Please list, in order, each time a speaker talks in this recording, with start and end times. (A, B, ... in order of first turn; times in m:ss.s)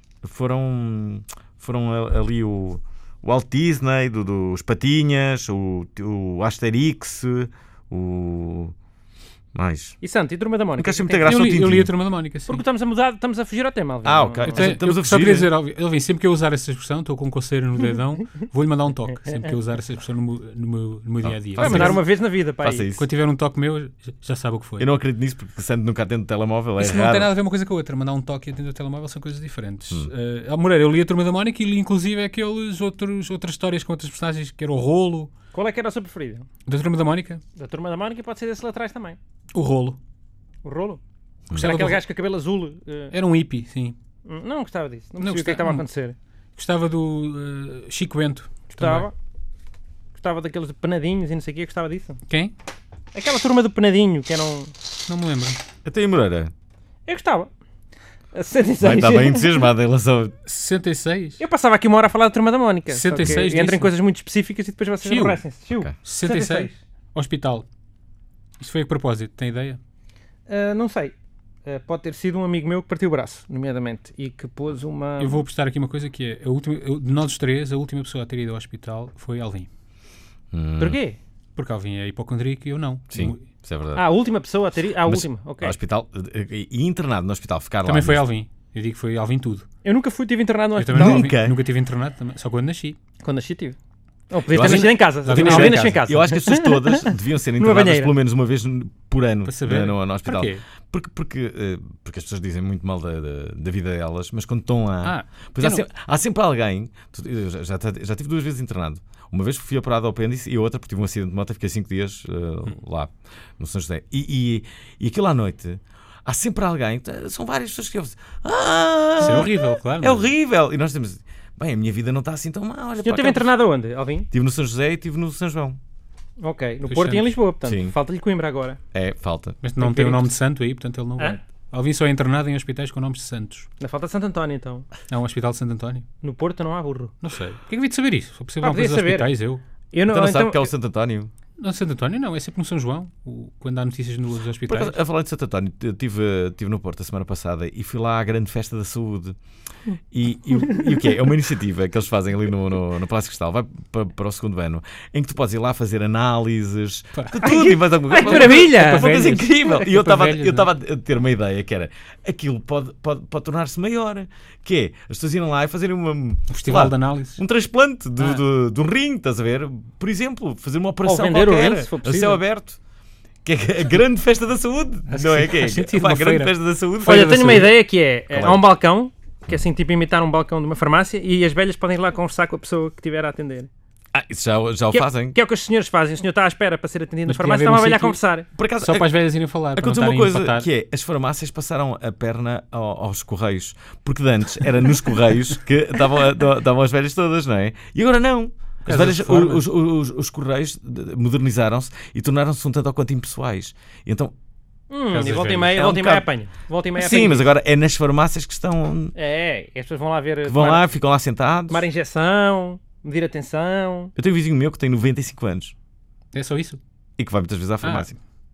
0:00.2-0:08.8 A
0:09.5-0:10.0 A
0:10.0-0:11.6 B
0:10.8-0:11.9 A
0:11.2-0:12.6 C
0:12.5-0:14.7 B
0:14.0-0:15.5 A
0:14.5-0:22.0 C
0:21.2-0:22.1 A
0:21.6-0:22.9 B
0:22.6-0:23.0 A
0:23.0-0:24.9 C
0:24.8-0:27.3 A
0:26.8-0:35.3 C
0:35.5-0:36.5 B
0:36.7-0:37.4 C
0:37.6-0:39.2 B
0:39.5-0:40.0 C
0:40.6-0:41.0 B
0:41.5-0:42.0 C
0:41.6-0:43.1 B
0:43.1-0:44.0 C
0:44.3-0:46.2 B
0:45.2-0:45.9 C
0:46.6-0:49.1 C
0:48.7-0:49.1 B
0:50.2-0:52.2 B
0:53.2-0:54.7 B
0:55.1-0:55.6 C
0:55.8-0:56.5 A
0:57.1-0:57.5 B
0:58.3-0:59.7 B
0:58.8-1:00.4 A
1:00.5-1:01.4 C
1:01.4-1:06.8 B
1:02.9-1:03.9 C
1:03.1-1:03.4 A
1:05.0-1:05.4 C
1:06.0-1:07.7 C
1:08.6-1:09.8 C
1:10.5-1:11.1 B
1:11.7-1:15.4 B
1:15.2-1:19.7 C
1:20.5-1:21.0 A
1:20.8-1:21.2 B
1:21.6-1:23.4 C
1:23.1-1:24.0 A
1:24.0-1:25.8 B
1:25.0-1:28.2 A
1:27.8-1:29.7 C
1:29.8-1:31.3 B
1:30.8-1:33.0 C
1:30.9-1:31.6 A
1:33.2-1:33.8 B
1:34.3-1:38.1 B
1:34.5-2:03.6 A
1:34.5-1:36.0 C
1:39.4-1:40.6 C
1:45.0-1:45.8 C
1:59.2-2:00.3 C
2:03.0-2:04.3 B
2:04.3-2:05.8 A
2:06.4-2:08.8 B
2:06.9-2:07.3 C
2:07.6-2:08.0 A
2:08.9-2:09.6 A
2:09.6-2:13.7 C
2:09.8-2:10.3 B
2:13.8-2:14.9 B
2:15.1-2:16.1 C
2:16.2-2:17.2 B
2:17.2-2:19.6 C
2:18.6-2:19.3 B
2:19.9-2:20.7 B
2:20.1-2:21.3 A
2:21.6-2:25.0 C
2:24.7-2:29.4 A
2:30.1-2:52.8 A
2:37.2-2:37.4 C
2:37.4-2:39.2 B
2:38.3-2:40.7 C
2:46.5-2:47.4 C
2:51.0-2:52.4 B
2:53.4-2:57.6 A
2:55.1-2:57.8 C
2:57.0-3:03.7 B
2:58.3-2:58.6 A
3:04.1-3:05.4 A
3:04.9-3:08.5 B
3:07.3-3:08.2 C
3:08.6-3:09.1 A
3:08.8-3:10.7 C
3:09.8-3:24.3 A
3:18.8-3:19.6 C
3:24.9-3:27.5 B
3:25.1-3:25.7 C
3:25.7-3:26.3 A
3:27.0-3:29.2 A
3:29.2-3:30.9 B
3:30.4-3:31.8 A
3:31.7-3:34.1 B
3:34.2-3:35.7 A
3:36.3-3:36.8 C
3:37.2-3:38.2 A
3:37.8-3:38.1 C